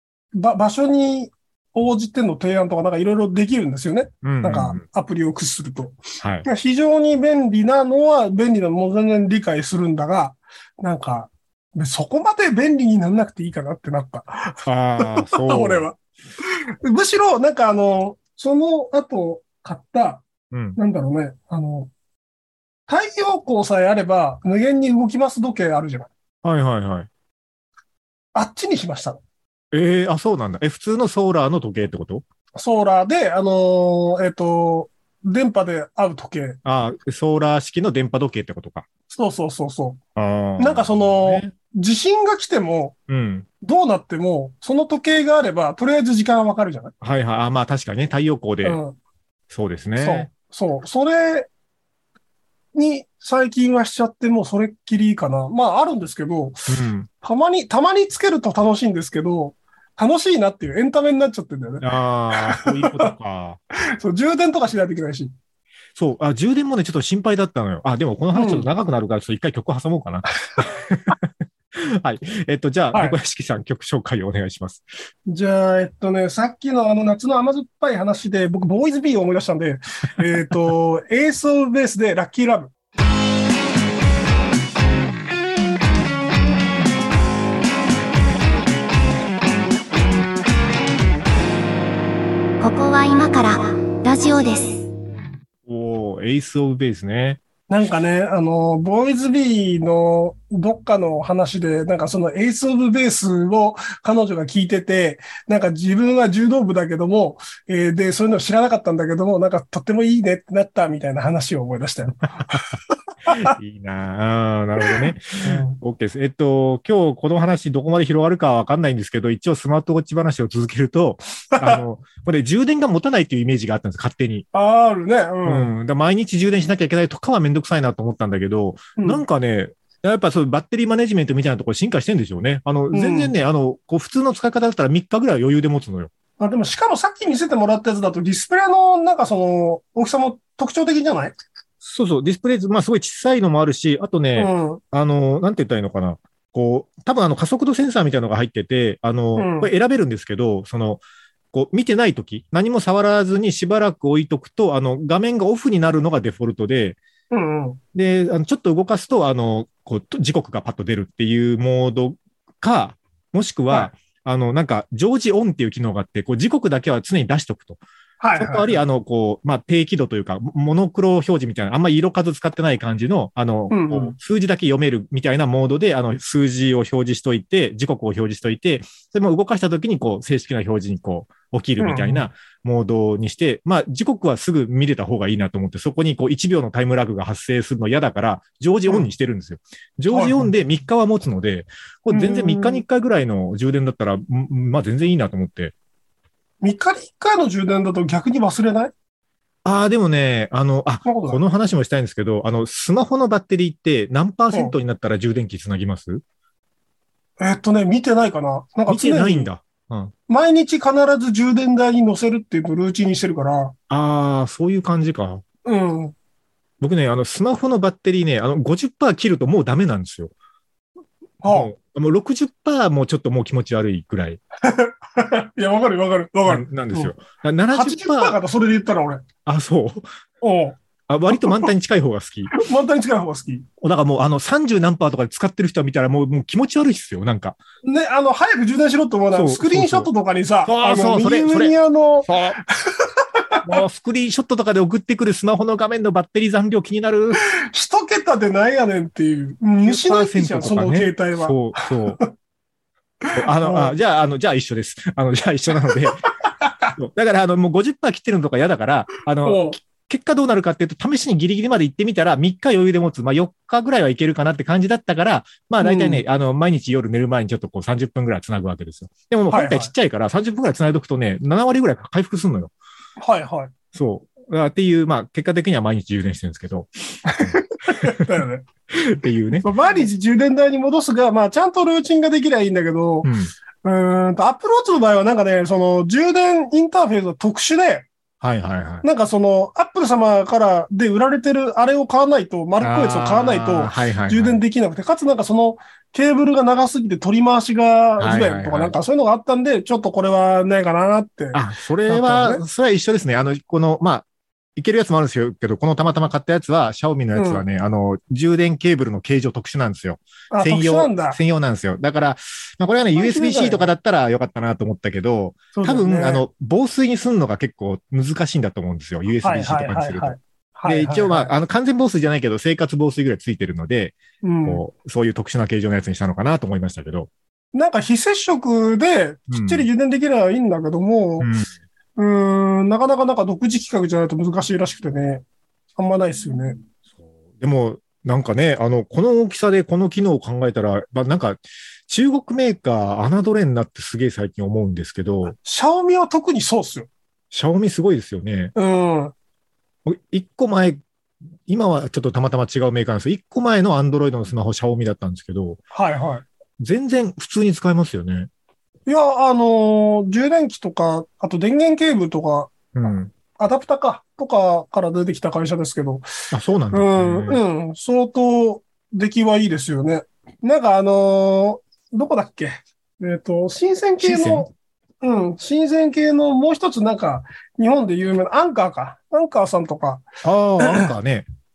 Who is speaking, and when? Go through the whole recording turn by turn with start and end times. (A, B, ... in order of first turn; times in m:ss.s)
0:00.3-0:16.0 A
0:04.2-0:04.8 B
0:06.2-0:06.5 B
0:14.7-0:15.9 B
0:16.8-0:21.9 A
0:20.5-0:20.8 B
0:22.9-0:26.1 A
0:26.4-0:27.1 B
0:28.4-0:29.2 A
0:29.7-0:32.2 B
0:32.6-0:36.6 A
0:36.6-0:38.9 B
0:39.1-0:40.0 A
0:40.2-0:41.5 B
0:40.6-0:43.0 A
0:43.1-0:43.5 B
0:43.6-0:46.9 A
0:47.0-0:48.8 B
0:48.6-0:49.0 A
0:49.5-0:50.3 B
0:50.0-0:51.5 A
0:52.8-1:03.1 A
0:56.7-0:57.1 B
1:01.8-1:03.6 B
1:04.0-1:05.3 A
1:06.0-1:14.9 B
1:08.3-1:08.7 A
1:12.9-1:13.2 A
1:15.3-1:22.7 A
1:32.6-1:34.9 C
1:35.7-1:37.4 B
1:37.7-1:52.7 A
1:53.3-1:53.5 A
1:53.3-2:04.5 B
1:54.8-1:55.8 A
2:01.6-2:01.8 A
2:04.5-2:05.7 A
2:05.4-2:16.1 B
2:09.0-2:09.2 A
2:12.9-2:13.3 A
2:16.4-2:21.4 A
2:21.8-2:31.0 B
2:24.4-2:24.8 A
2:29.4-2:29.7 A
2:31.5-2:37.0 B
2:37.3-2:37.8 A
2:37.9-2:47.8 B
2:48.2-2:48.8 A
2:48.4-3:15.7 B
2:53.7-2:54.2 A
3:01.8-3:02.3 A
3:10.1-3:10.5 A
3:12.1-3:12.8 A
3:16.6-3:18.9 A
3:19.6-3:26.2 B
3:21.0-3:21.4 A
3:27.4-3:29.5 A
3:28.9-3:30.1 B
3:30.3-3:33.8 A
3:33.9-3:35.4 B
3:35.6-3:36.2 A
3:36.8-3:40.3 B
3:41.4-3:41.7 A
3:41.5-3:44.4 B
3:44.6-3:47.2 A
3:46.5-3:48.4 B
3:47.7-3:49.2 A
3:49.5-3:50.1 B
3:50.4-3:50.8 A
3:51.1-3:52.5 B
3:51.3-3:51.7 A
3:52.5-3:53.7 A
3:53.8-3:57.6 B
3:57.8-4:03.6 A
3:59.3-4:00.1 B
4:00.6-4:02.6 B
4:03.6-4:07.4 B
4:07.6-4:12.2 A
4:09.8-4:12.2 B
4:13.3-4:14.0 A
4:13.3-4:16.2 B
4:15.8-4:16.9 A
4:17.0-4:32.7 B
4:19.4-4:19.8 A
4:25.8-4:26.2 A
4:29.5-4:29.9 A
4:33.2-4:33.7 A
4:33.9-4:39.7 B
4:37.3-4:38.6 A
4:39.6-4:43.3 A
4:43.2-4:43.5 B
4:43.8-4:48.1 A
4:48.4-4:49.1 B
4:49.0-5:02.7 A
4:52.8-4:54.6 B
4:58.2-4:59.0 B
5:01.5-5:27.3 B
5:07.4-5:07.6 A
5:10.5-5:11.4 A
5:13.2-5:13.9 A
5:15.7-5:16.4 A
5:19.4-5:21.5 A
5:24.4-5:24.8 A
5:27.7-5:31.5 A
5:29.5-5:29.9 B
5:31.4-5:31.7 B
5:32.2-5:35.4 A
5:36.0-5:36.8 A
5:37.2-5:45.6 B
5:45.5-5:47.1 A
5:47.5-5:48.7 B
5:48.8-5:49.3 A
5:50.1-5:51.0 B
5:51.7-5:55.8 B
5:55.9-5:56.4 A
5:56.8-5:58.5 B
5:59.1-6:02.8 A
6:02.9-6:03.3 B
6:03.6-6:06.2 A
6:06.5-6:07.6 B
6:06.9-6:14.7 A
6:14.2-6:14.7 B
6:15.2-6:20.2 A
6:20.4-6:21.5 B
6:20.8-6:21.1 A